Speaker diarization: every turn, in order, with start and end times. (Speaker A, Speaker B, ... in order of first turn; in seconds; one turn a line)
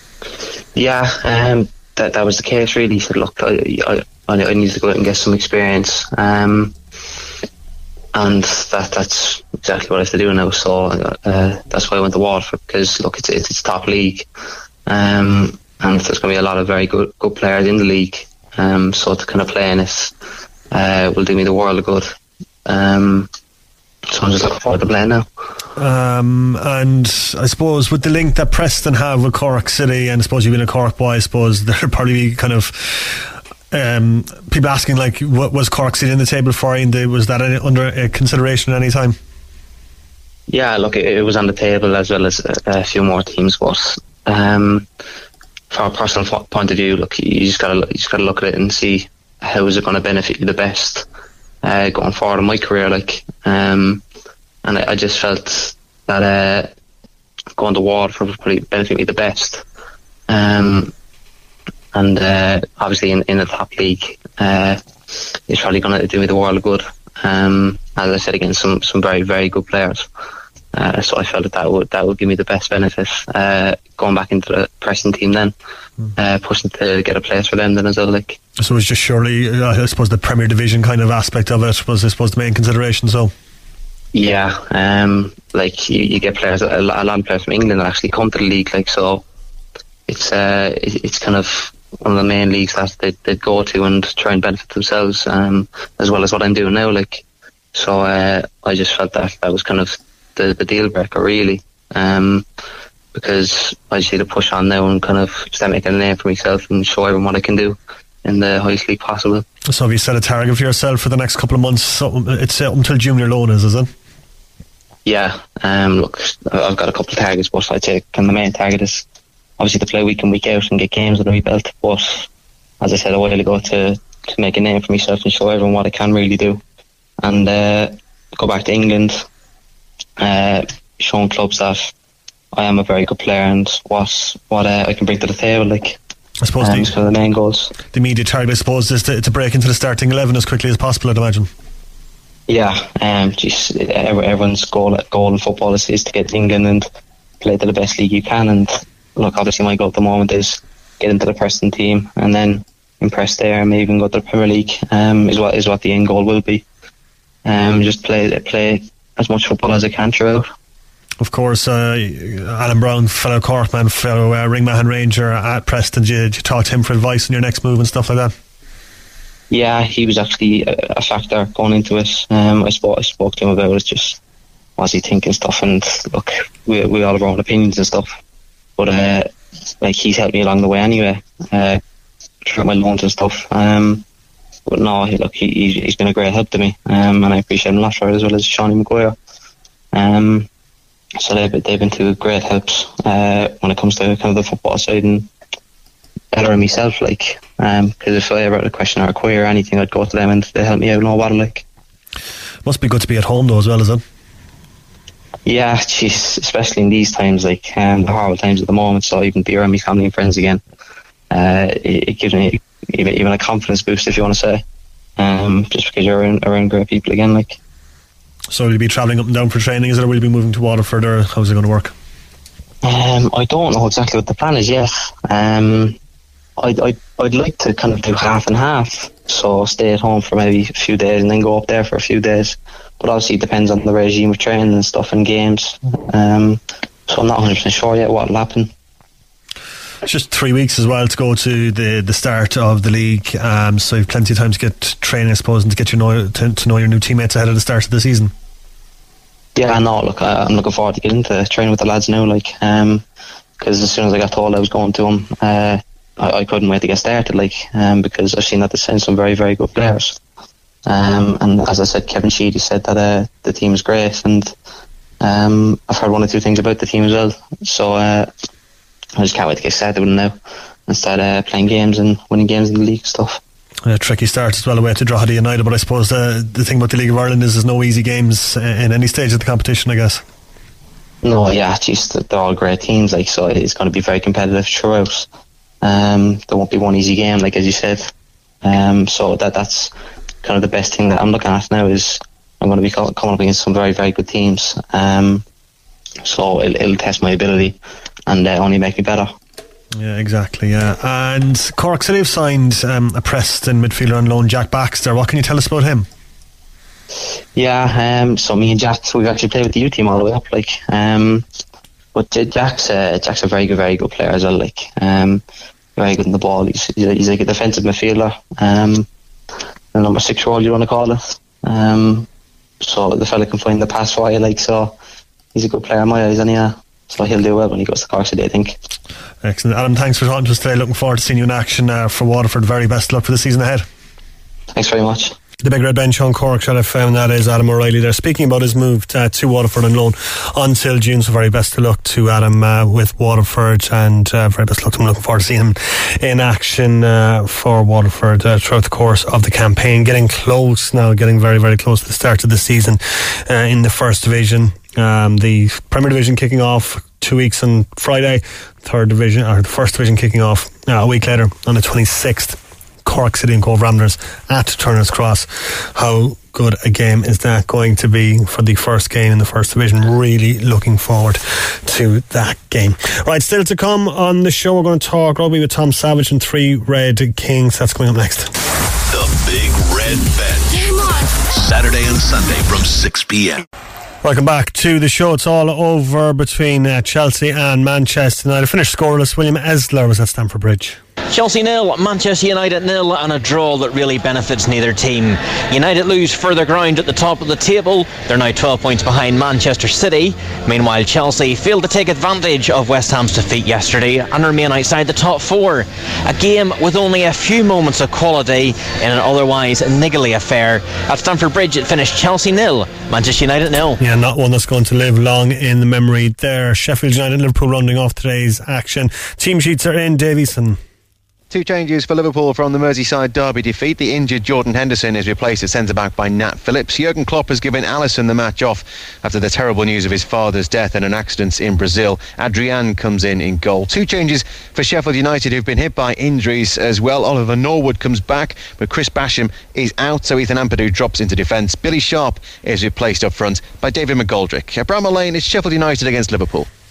Speaker A: 0.8-6.8
Speaker A: 8.1-14.3
Speaker A: 14.9-20.1
Speaker A: 20.7-22.1
Speaker A: 22.7-23.3
Speaker A: 24.1-25.3
Speaker B: 25.8-39.2
Speaker A: 40.5-44.9
Speaker A: 45.7-51.1
Speaker A: 51.6-54.0
Speaker A: 54.6-56.7
Speaker A: 57.6-59.6
Speaker A: 60.3-60.9
Speaker A: 61.9-64.8
Speaker A: 65.5-70.1
Speaker A: 70.7-75.5
Speaker A: 76.2-78.4
Speaker B: 78.6-83.3
Speaker A: 84.1-89.2
Speaker A: 90.1-102.5
Speaker A: 103.1-109.5
Speaker B: 109.7-113.9
Speaker A: 115.1-119.0
Speaker A: 119.6-122.3
Speaker A: 122.8-126.6
Speaker A: 127.2-129.3
Speaker A: 130.2-131.9
Speaker A: 132.5-136.0
Speaker B: 136.4-136.9
Speaker A: 136.6-137.7
Speaker B: 137.9-141.5
Speaker A: 142.5-146.9
Speaker A: 147.4-156.7
Speaker A: 157.5-160.5
Speaker B: 161.2-168.3
Speaker A: 169.5-174.2
Speaker A: 174.8-178.2
Speaker A: 178.8-181.8
Speaker A: 182.5-184.0
Speaker A: 184.7-189.2
Speaker A: 189.9-190.5
Speaker A: 191.2-195.3
Speaker A: 196.3-201.7
Speaker B: 202.6-204.0
Speaker A: 205.5-210.6
Speaker A: 211.3-214.6
Speaker A: 215.2-217.6
Speaker B: 218.5-221.9
Speaker A: 222.8-226.0
Speaker A: 226.6-238.7
Speaker B: 240.1-248.3
Speaker A: 249.6-253.0
Speaker A: 253.6-260.2
Speaker A: 260.9-264.5
Speaker A: 265.2-268.3
Speaker A: 269.2-270.4
Speaker A: 270.9-273.4
Speaker B: 273.9-280.2
Speaker A: 281.2-285.3
Speaker A: 285.8-288.1
Speaker A: 288.6-289.9
Speaker A: 290.4-295.4
Speaker A: 296.2-299.3
Speaker B: 299.9-306.1
Speaker A: 307.6-311.5
Speaker A: 312.1-315.4
Speaker A: 316.0-319.1
Speaker A: 319.9-322.3
Speaker A: 322.8-325.0
Speaker A: 325.5-328.8
Speaker B: 329.4-333.9
Speaker A: 334.8-335.4
Speaker B: 335.6-378.5
Speaker C: 379.1-383.6
Speaker B: 384.2-391.0
Speaker D: 391.3-414.0
Speaker B: 414.0-420.8
Speaker E: 421.5-446.7